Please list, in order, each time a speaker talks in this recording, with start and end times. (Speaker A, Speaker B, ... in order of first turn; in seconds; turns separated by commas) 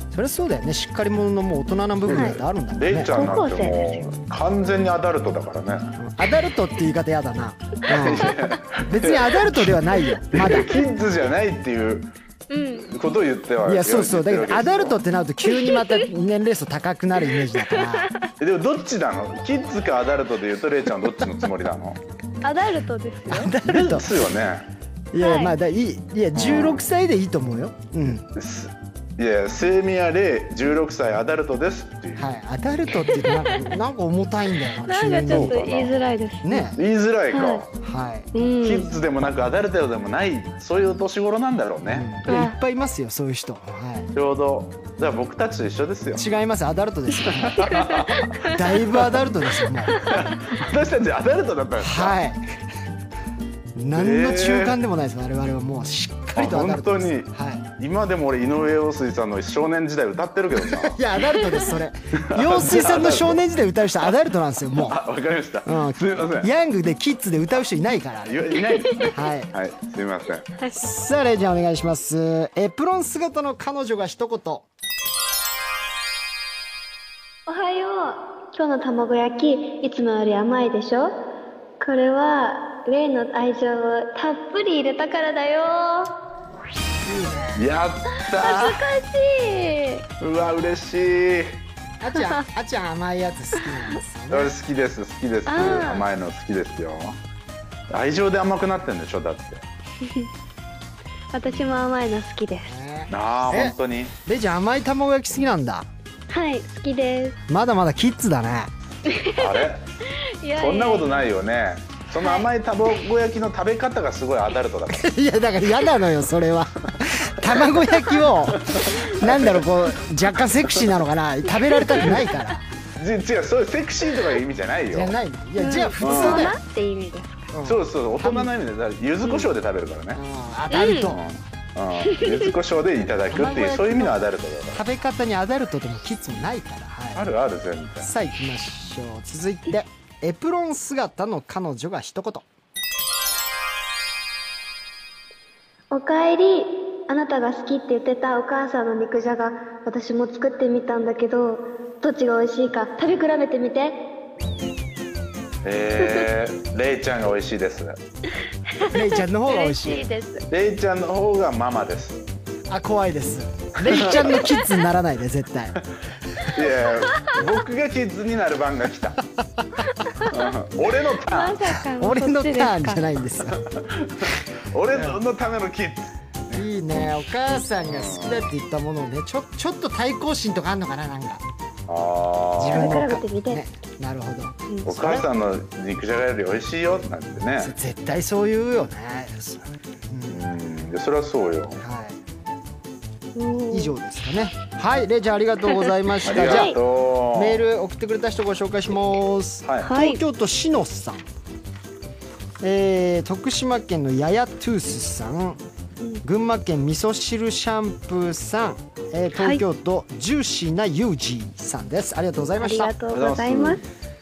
Speaker A: 0.1-3.1, Speaker B: 2.1-2.4, Speaker C: 2.1-6.0, Speaker B: 3.1-4.1, Speaker A: 6.0-10.8, Speaker C: 7.9-12.1, Speaker B: 12.5-12.9, Speaker C: 12.8-15.0, Speaker A: 13.6-18.1, Speaker B: 15.5-15.9, Speaker B: 17.7-18.1, Speaker C: 18.4-22.0, Speaker B: 22.4-23.5, Speaker A: 23.3-24.1, Speaker C: 23.6-24.7, Speaker A: 25.1-28.3, Speaker B: 25.2-25.6, Speaker C: 26.4-26.9, Speaker C: 28.4-32.3, Speaker A: 32.2-35.7, Speaker B: 33.1-33.6, Speaker B: 34.8-36.7, Speaker C: 35.3-36.0, Speaker A: 36.4-36.8, Speaker C: 36.8-37.7, Speaker B: 37.3-37.6, Speaker A: 37.8-38.3, Speaker B: 38.3-38.9, Speaker C: 38.6-42.1, Speaker A: 41.9-44.1, Speaker B: 42.3-42.6, Speaker C: 44.1-46.3, Speaker A: 46.1-47.7, Speaker C: 47.3-49.3, Speaker B: 47.6-48.5, Speaker A: 48.4-50.1, Speaker C: 49.9-52.2, Speaker A: 51.8-52.4, Speaker A: 53.8-57.7, Speaker C: 53.9-54.8, Speaker C: 56.4-61.1, Speaker A: 60.6-65.0, Speaker C: 62.1-63.5, Speaker C: 64.7-66.5, Speaker A: 65.6-68.5, Speaker C: 68.2-70.5, Speaker B: 68.8-69.1, Speaker A: 69.1-69.5, Speaker A: 70.7-74.7, Speaker B: 77.5-81.3, Speaker B: 81.8-86.1, Speaker A: 87.0-87.7, Speaker C: 87.5-88.9, Speaker B: 88.2-90.1, Speaker C: 90.2-91.6, Speaker A: 92.0-94.5, Speaker C: 94.3-97.2, Speaker B: 95.5-96.1, Speaker C: 97.9-99.6, Speaker B: 100.0-100.3, Speaker B: 101.3-102.7, Speaker A: 102.7-103.7, Speaker C: 103.1-104.1, Speaker A: 104.2-105.9, Speaker B: 106.3-107.4, Speaker A: 107.5-108.7, Speaker B: 109.1-111.3, Speaker C: 109.3-109.8, Speaker C: 110.6-115.1, Speaker B: 112.2-112.5, Speaker A: 114.9-122.6, Speaker C: 118.5-119.7, Speaker C: 120.5-120.9, Speaker B: 121.9-122.3, Speaker C: 123.0-125.1, Speaker A: 124.9-126.6, Speaker B: 125.6-127.5, Speaker C: 126.0-126.6, Speaker A: 127.5-128.5, Speaker C: 127.6-130.2, Speaker B: 129.2-129.5, Speaker A: 130.1-131.2, Speaker B: 130.7-131.2, Speaker C: 131.0-134.8, Speaker B: 132.1-132.5, Speaker A: 133.3-134.1, Speaker A: 134.7-137.3, Speaker C: 137.1-138.1, Speaker A: 138.0-142.4, Speaker B: 145.9-154.1, Speaker C: 155.6-158.0, Speaker B: 158.8-160.4, Speaker A: 158.9-160.1, Speaker C: 160.5-162.2, Speaker A: 162.7-165.8, Speaker C: 163.8-164.6, Speaker C: 166.4-169.2, Speaker C: 170.2-171.6, Speaker B: 171.2-173.0, Speaker A: 172.0-173.6, Speaker C: 173.5-177.0, Speaker A: 174.9-175.2, Speaker A: 176.5-181.4, Speaker C: 177.9-178.5, Speaker C: 181.9-183.1, Speaker A: 182.6-185.3, Speaker B: 182.7-183.6, Speaker C: 184.9-187.7, Speaker A: 187.6-190.4, Speaker C: 190.3-191.8, Speaker A: 191.8-192.2, Speaker B: 193.3-194.0, Speaker A: 193.7-196.8, Speaker C: 196.2-197.6, Speaker B: 196.3-196.8, Speaker A: 197.3-201.2, Speaker C: 199.6-199.9, Speaker B: 199.8-200.2, Speaker A: 202.6-205.6, Speaker A: 206.2-212.9, Speaker B: 209.4-209.6, Speaker B: 212.6-213.8, Speaker C: 213.1-213.8